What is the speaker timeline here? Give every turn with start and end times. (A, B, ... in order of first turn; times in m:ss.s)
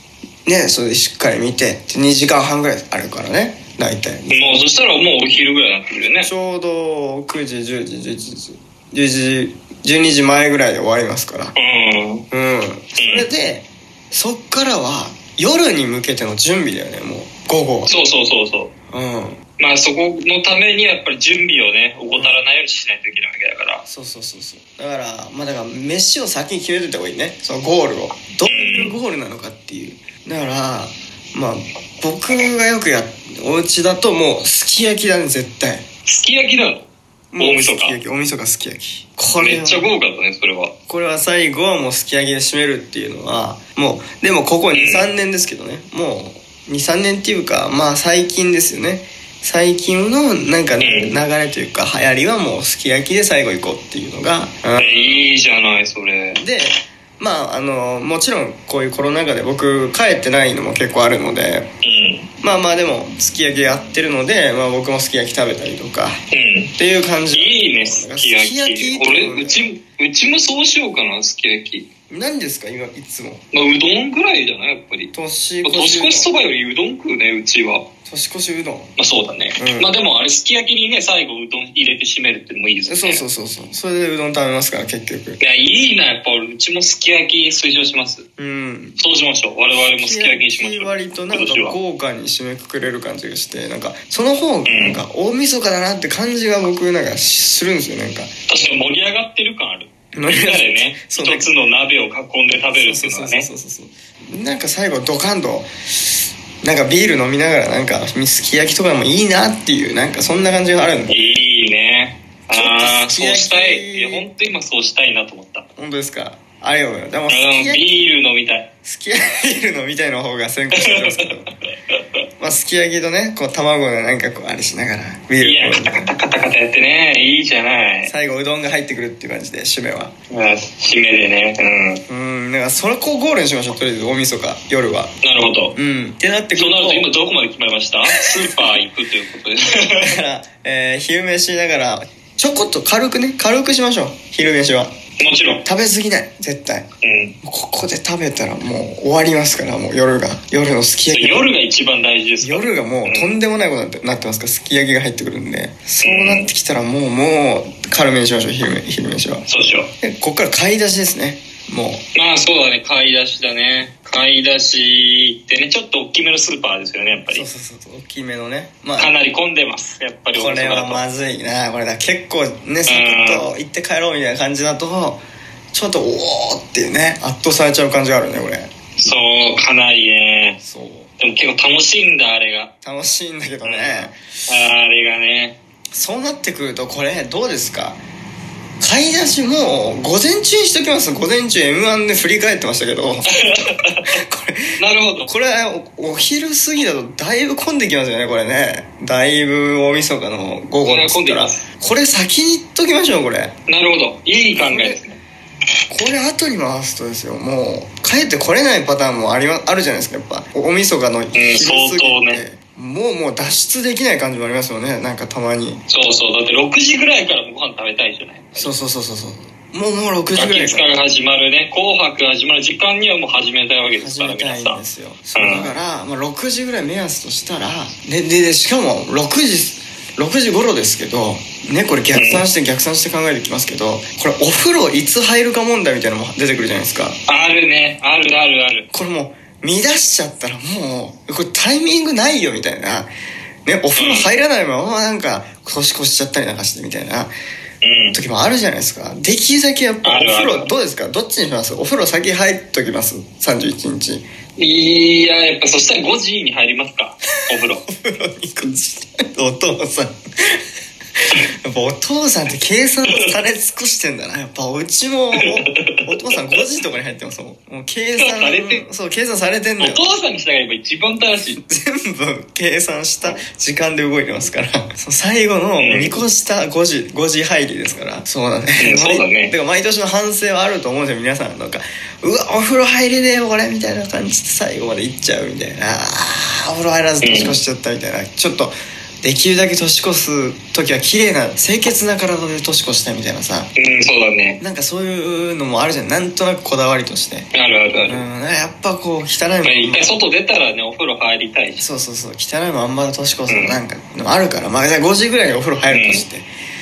0:00.4-0:04.7 A
0:04.3-0:06.3 B
0:06.2-0:11.5 A
0:11.6-0:12.2 B
0:12.3-0:17.9 A
0:13.0-0:13.2 B
0:17.9-0:18.7 B
0:18.9-0:19.4 A
0:19.6-0:23.8 B
0:22.1-0:22.4 A
0:23.8-0:35.8 A
0:28.4-0:29.0 B
0:36.0-0:36.9 B
0:37.3-0:39.9 A
0:37.4-0:38.0 B
0:39.4-0:40.7 B
0:40.9-0:55.2 A
0:44.7-0:45.1 B
0:50.8-0:51.2 B
0:54.8-0:56.4 B
0:56.3-1:01.7 A
1:01.8-1:02.3 B
1:02.4-1:06.2 A
1:06.3-1:06.7 B
1:06.8-1:09.7 A
1:07.3-1:11.9 B
1:12.1-1:13.4 A
1:13.5-1:15.1 B
1:15.1-1:16.3 A
1:15.6-1:17.8 B
1:18.0-1:18.9 A
1:19.0-1:23.2 B
1:19.6-1:19.9 A
1:22.8-1:25.4 A
1:25.4-1:28.2 B
1:28.4-1:29.0 A
1:29.0-1:31.8 B
1:29.8-1:38.3 A
1:34.7-1:35.0 B
1:38.5-1:43.5 B
1:40.1-1:41.5 A
1:42.8-1:45.7 A
1:46.6-1:51.4 A
1:51.1-1:55.6 B
1:52.5-1:54.3 A
1:55.8-1:57.9 A
1:57.3-1:58.7 B
1:58.8-2:01.4 A
2:00.7-2:02.0 B
2:02.4-2:06.1 A
2:05.4-2:08.1 B
2:08.0-2:10.1 A
2:10.3-2:12.0 B
2:12.1-2:15.1 A
2:15.2-2:15.8 B
2:15.7-2:17.1 A
2:16.6-2:20.2 B
2:18.1-2:18.7 A
2:20.0-2:24.9 A
2:25.2-2:25.6 B
2:25.6-2:26.8 A
2:27.0-2:27.4 B
2:27.4-2:31.5 A
2:31.1-2:33.4 B
2:32.4-2:39.5 A
2:36.0-2:36.5 B
2:39.5-2:39.9 B
2:40.0-2:42.0 A
2:42.1-2:47.4 B
2:47.2-2:49.1 A
2:49.0-2:51.0 B
2:50.3-2:58.7 A
2:52.8-2:53.4 B
2:59.0-3:00.6 B
3:00.6-3:01.1 A
3:01.2-3:02.7 B
3:02.8-3:04.5 A
3:03.6-3:05.6 B
3:05.9-3:08.0 A
3:08.8-3:23.5 A
3:13.3-3:14.2 B
3:14.8-3:15.3 B
3:20.8-3:21.6 B
3:23.7-3:25.2 B
3:24.5-3:25.0 A
3:25.9-3:35.8 A
3:31.3-3:32.4 B
3:35.9-3:38.7 B
3:38.5-3:40.9 A
3:40.3-3:44.8 B
3:43.9-3:57.2 A
3:45.3-3:45.7 B
3:52.1-3:52.4 B
3:57.3-3:58.9 B
3:58.9-4:03.1 A
4:03.6-4:07.3 A
4:04.0-4:04.3 B
4:07.8-4:08.2 B
4:08.1-4:14.2 A
4:10.0-4:10.7 B
4:14.6-4:17.8 B
4:17.5-4:20.6 A
4:21.6-4:30.1 A
4:25.4-4:26.1 B
4:28.2-4:28.8 B
4:29.8-4:31.6 B
4:31.5-4:53.7 A
4:35.8-4:36.2 B
4:38.8-4:39.5 B
4:47.2-4:47.6 B
4:53.8-4:54.6 B
4:54.6-4:57.5 A
4:57.5-4:58.2 B
4:58.0-5:00.2 A
4:59.6-5:01.8 B
5:01.8-5:06.5 A
5:03.5-5:03.8 B
5:05.9-5:06.2 B